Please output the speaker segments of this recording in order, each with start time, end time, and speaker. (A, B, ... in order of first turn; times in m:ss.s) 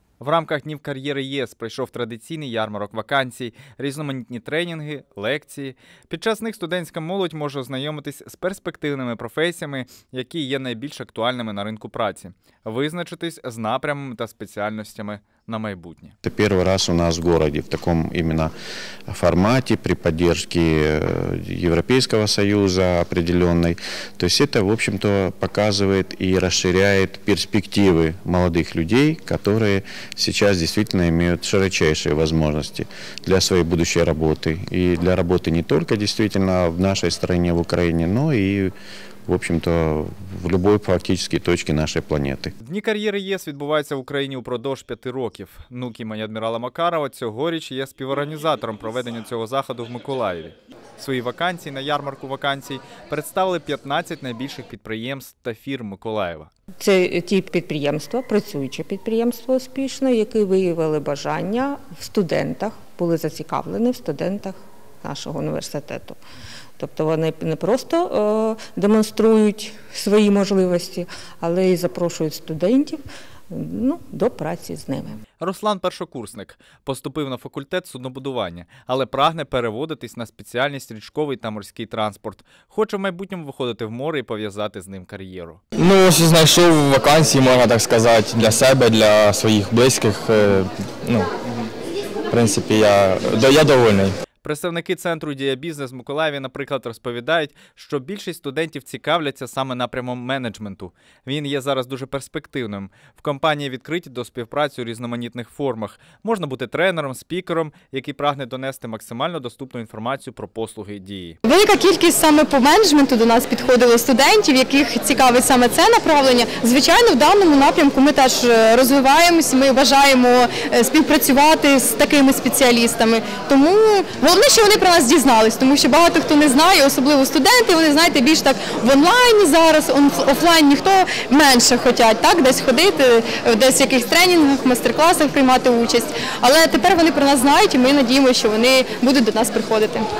0:00.2-0:16.1 A
0:16.2-0:18.5 B
0:19.1-0:38.7 B
0:39.3-0:42.5 B
0:42.6-0:56.5 A
0:56.8-1:06.2 C
1:06.8-1:15.2 C
1:15.4-1:25.6 A
1:25.8-1:31.3 D
1:32.3-1:34.2 D
1:34.4-1:51.4 A
1:51.4-2:20.1 E